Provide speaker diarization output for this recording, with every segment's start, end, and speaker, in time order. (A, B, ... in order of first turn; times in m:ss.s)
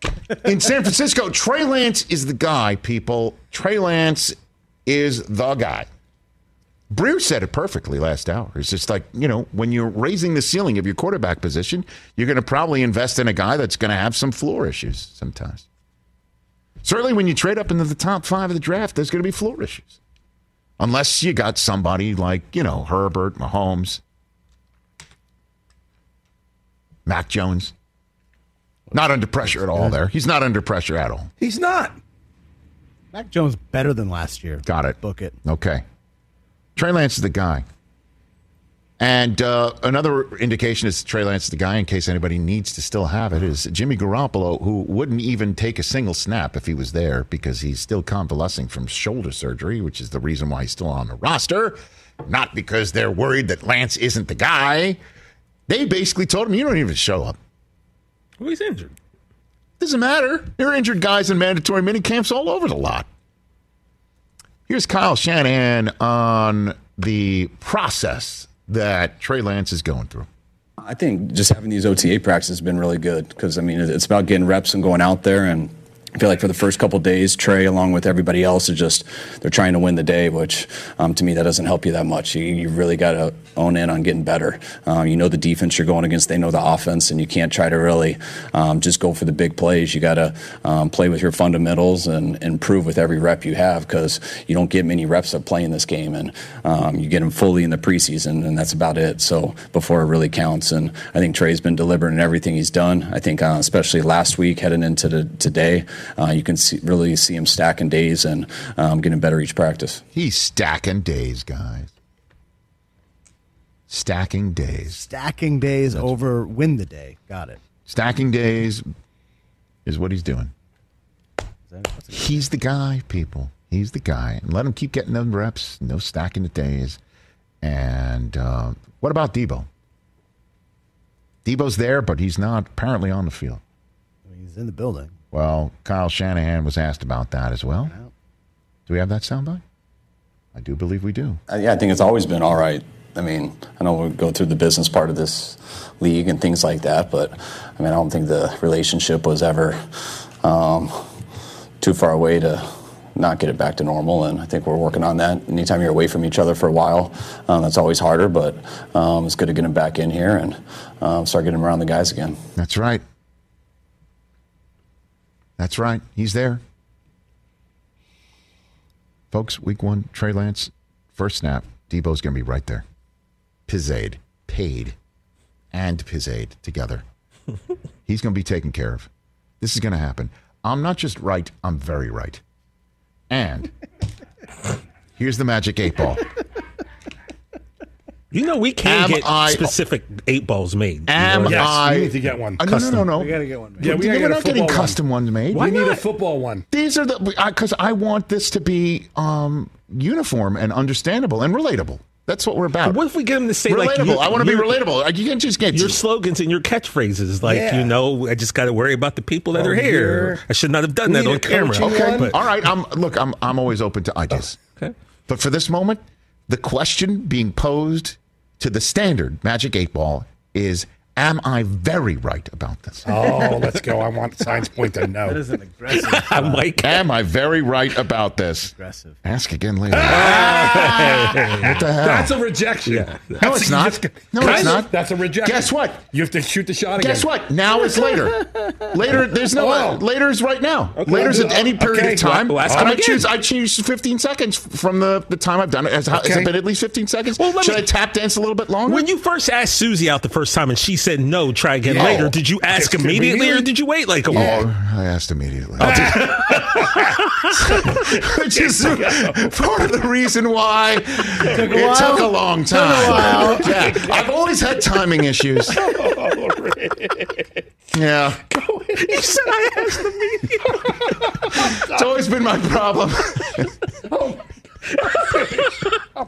0:00.3-0:05.9 A
0:06.9-0:15.6 A
0:16.8-0:19.9 A
0:20.8-0:24.0 A
0:27.0-0:27.7 A
0:28.9-0:31.3 A
0:31.4-0:32.0 B
0:33.1-0:35.3 C
0:34.6-0:35.8 A
0:36.8-0:37.6 A
0:39.0-0:55.0 A
0:55.7-0:57.4 A
0:58.4-0:58.9 D
0:59.8-1:03.1 A
1:04.7-1:10.3 A
1:10.8-1:50.0 E
1:50.1-1:51.9 A
1:53.9-1:55.1 A
1:54.9-1:57.6 C
1:57.9-1:58.9 A
1:59.8-2:00.5 A
2:01.7-2:02.5 C
2:02.1-2:07.0 A
2:07.6-2:09.7 A
2:11.4-2:13.6 A
2:14.2-2:15.1 C
2:15.3-2:17.9 A
2:18.9-2:19.6 A
2:20.5-2:21.4 A
2:21.5-2:29.8 E
2:30.4-2:31.1 E
2:31.8-2:42.4 E
2:42.6-2:43.0 A
2:45.6-2:46.6 A
2:49.3-2:52.8 A
2:53.7-2:55.0 A
2:55.7-2:57.0 A
2:58.0-2:59.1 A
2:59.6-3:02.4 A
3:03.3-3:03.7 A
3:05.2-3:06.2 A
3:08.3-3:11.8 D
3:08.8-3:09.8 A
3:11.1-3:15.8 A
3:11.4-3:13.0 B
3:13.1-3:13.9 C
3:13.8-3:15.0 B
3:15.5-3:16.6 B
3:15.6-3:16.0 D
3:16.7-3:23.0 A
3:22.8-3:24.8 D
3:23.6-3:26.0 A
3:25.7-3:32.4 D
3:27.4-3:28.0 B
3:29.5-3:30.4 B
3:31.0-3:32.3 B
3:31.7-3:34.6 A
3:35.3-3:43.4 A
3:43.0-3:45.4 B
3:45.2-3:46.7 C
3:45.9-3:47.0 D
3:46.8-3:48.7 A
3:48.7-3:49.2 C
3:49.2-3:52.4 A
3:49.9-3:57.3 B
3:50.0-3:51.7 D
3:52.9-3:53.4 D
3:53.4-3:56.1 A
3:54.4-3:54.8 D
3:57.0-4:09.1 A
3:59.1-4:00.0 B
4:01.0-4:03.0 B
4:01.0-4:01.4 D
4:02.3-4:03.3 D
4:06.1-4:06.5 B
4:07.4-4:07.9 D
4:08.8-4:14.6 D
4:11.9-4:13.7 B
4:11.9-4:12.3 A
4:14.3-4:26.0 A
4:15.8-4:17.1 B
4:18.7-4:19.3 B
4:21.4-4:23.8 C
4:23.0-4:24.1 B
4:25.7-4:27.4 B
4:27.9-4:28.4 A
4:28.9-4:31.4 D
4:31.5-4:31.9 B
4:31.5-4:33.7 A
4:34.1-4:34.4 B
4:35.0-4:35.7 B
4:35.1-4:35.9 D